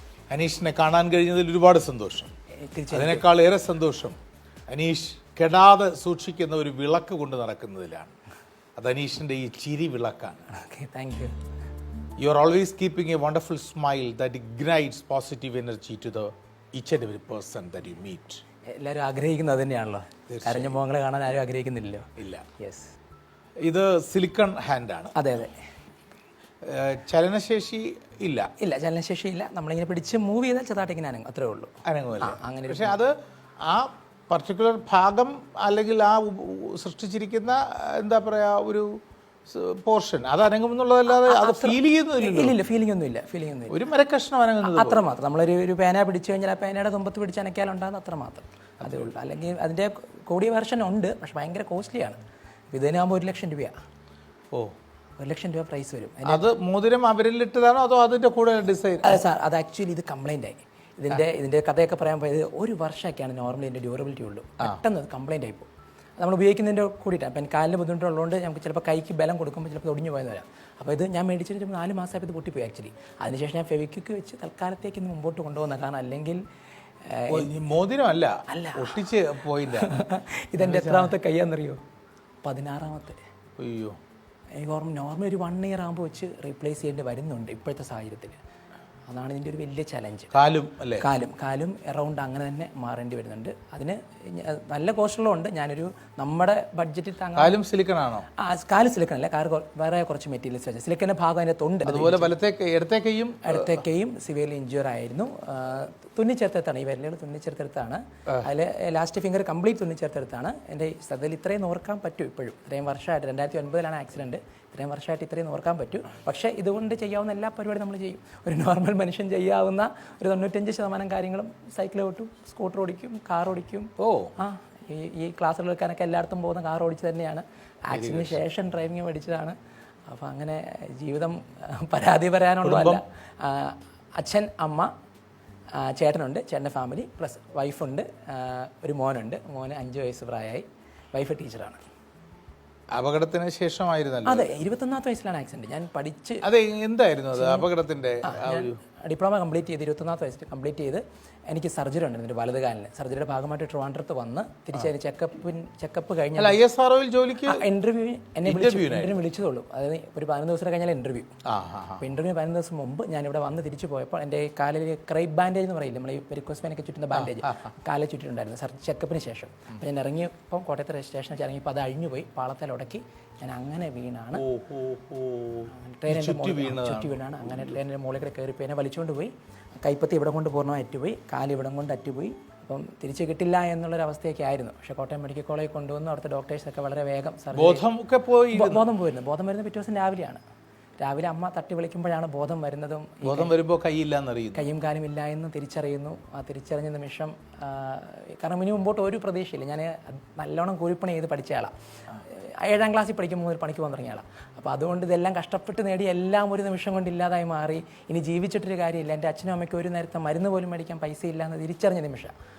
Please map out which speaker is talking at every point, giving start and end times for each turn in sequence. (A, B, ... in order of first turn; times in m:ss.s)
0:00.3-0:02.3 A
0:02.6-0:03.3 B
0:02.9-0:04.2 A
0:04.7-0:08.1 A
0:08.8-0:10.5 A
0:10.5-0:11.3 B
0:12.2-0:18.4 A
0:18.7-0:22.9 B
0:20.3-0:20.8 A
0:22.2-0:22.5 A
0:23.6-0:25.1 A
0:25.2-0:25.6 B
0:26.6-0:28.5 A
0:28.6-0:33.0 B
0:31.8-0:33.1 A
0:33.6-0:38.9 A
0:39.5-0:42.6 A
0:41.1-0:43.7 B
0:43.7-0:45.0 A
0:44.6-0:52.2 B
0:48.8-0:49.1 A
0:52.7-0:53.7 B
0:55.2-0:56.5 B
0:56.2-0:59.2 A
0:59.0-1:16.4 B
1:17.0-1:17.5 B
1:17.3-1:20.0 A
1:18.5-1:21.8 B
1:20.6-1:21.1 A
1:22.4-1:23.2 B
1:23.6-1:24.0 A
1:24.6-1:28.4 B
1:29.1-1:30.3 B
1:30.3-1:31.1 A
1:31.0-1:37.6 B
1:37.4-1:38.3 A
1:38.4-1:42.3 B
1:41.8-1:43.8 A
1:43.4-2:09.6 B
2:04.0-2:04.3 A
2:07.9-2:08.4 A
2:10.1-2:14.9 B
2:12.6-2:13.0 A
2:15.8-2:21.8 B
2:22.9-2:24.5 A
2:24.2-2:26.4 B
2:26.4-2:28.8 A
2:27.3-2:27.7 B
2:28.2-2:36.6 B
2:36.4-2:37.6 A
2:37.4-2:41.3 B
2:38.4-2:39.2 A
2:41.4-2:42.0 A
2:42.0-2:54.4 B
2:47.1-2:47.7 A
2:54.4-2:57.7 A
2:55.7-3:07.8 B
3:07.5-3:08.8 A
3:08.5-3:10.4 B
3:11.0-3:13.5 B
3:13.2-3:14.6 A
3:14.5-3:21.7 B
3:22.2-3:32.3 B